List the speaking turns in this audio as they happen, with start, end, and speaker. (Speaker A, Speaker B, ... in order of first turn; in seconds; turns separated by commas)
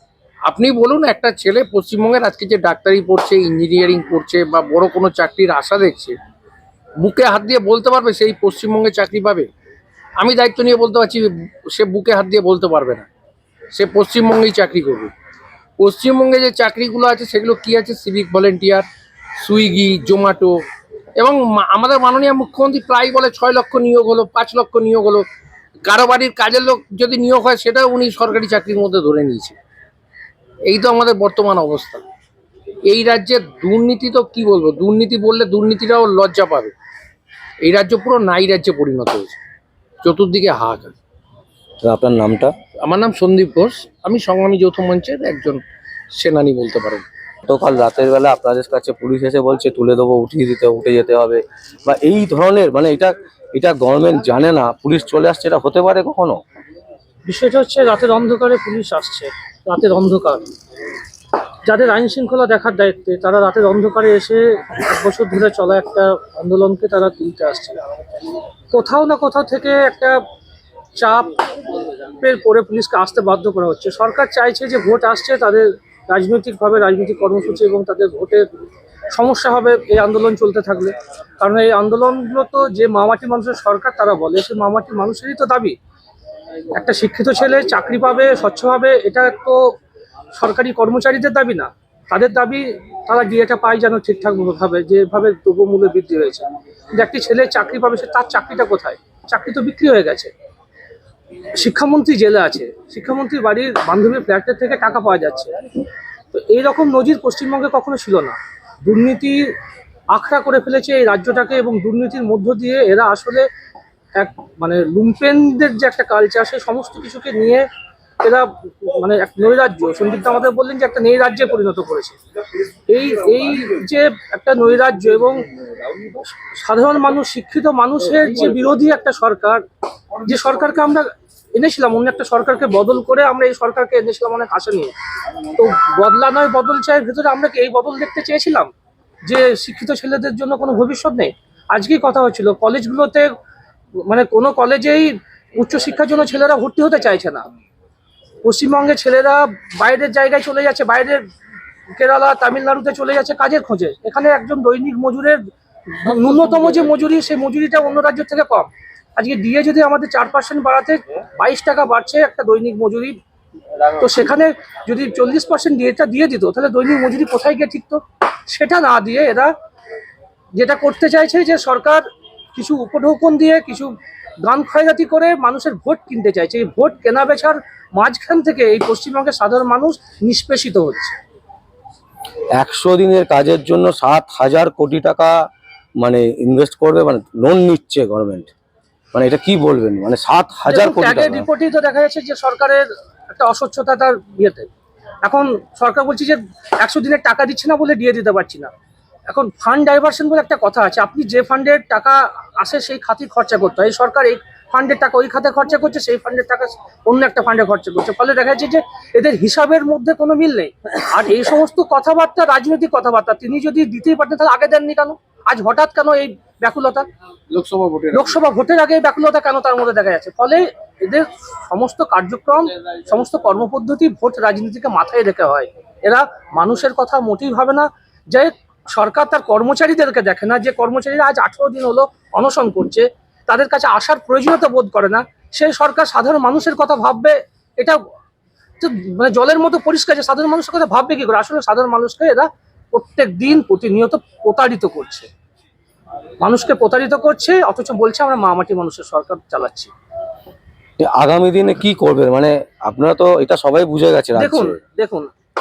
Speaker A: 0.5-6.1, Speaker A: 7.0-9.5, Speaker A: 10.2-13.1, Speaker A: 13.7-15.1, Speaker A: 15.8-18.9, Speaker A: 19.4-20.6, Speaker A: 21.2-25.2, Speaker A: 25.9-29.6, Speaker A: 30.7-32.0, Speaker A: 32.9-36.7, Speaker A: 37.6-39.4, Speaker A: 40.0-40.9, Speaker B: 41.8-42.5, Speaker A: 42.8-45.6, Speaker A: 46.1-47.0, Speaker B: 47.5-56.4, Speaker C: 57.2-60.4, Speaker C: 61.7-67.8, Speaker C: 68.7-70.2, Speaker C: 71.0-71.3, Speaker C: 72.2-78.5, Speaker C: 79.1-85.7, Speaker C: 86.7-89.7, Speaker C: 90.3-100.3, Speaker C: 101.5-105.5, Speaker C: 106.3-109.4, Speaker C: 110.1-113.5, Speaker C: 114.2-117.7, Speaker C: 118.2-122.2, Speaker C: 122.9-125.4, Speaker C: 126.5-129.6, Speaker C: 130.2-134.9, Speaker C: 135.5-138.7, Speaker C: 139.2-143.3, Speaker C: 144.1-147.4, Speaker C: 148.4-151.2, Speaker C: 152.0-155.4, Speaker C: 155.9-163.2, Speaker C: 163.9-169.5, Speaker C: 170.5-172.0, Speaker C: 172.5-181.2, Speaker B: 182.6-185.3, Speaker B: 186.0-188.5, Speaker B: 189.1-191.4, Speaker C: 190.7-194.7, Speaker C: 195.2-198.7, Speaker C: 199.3-217.1, Speaker A: 217.5-218.4, Speaker C: 218.1-238.0, Speaker C: 238.8-245.3, Speaker C: 246.4-249.9, Speaker B: 251.0-254.7, Speaker C: 254.3-255.3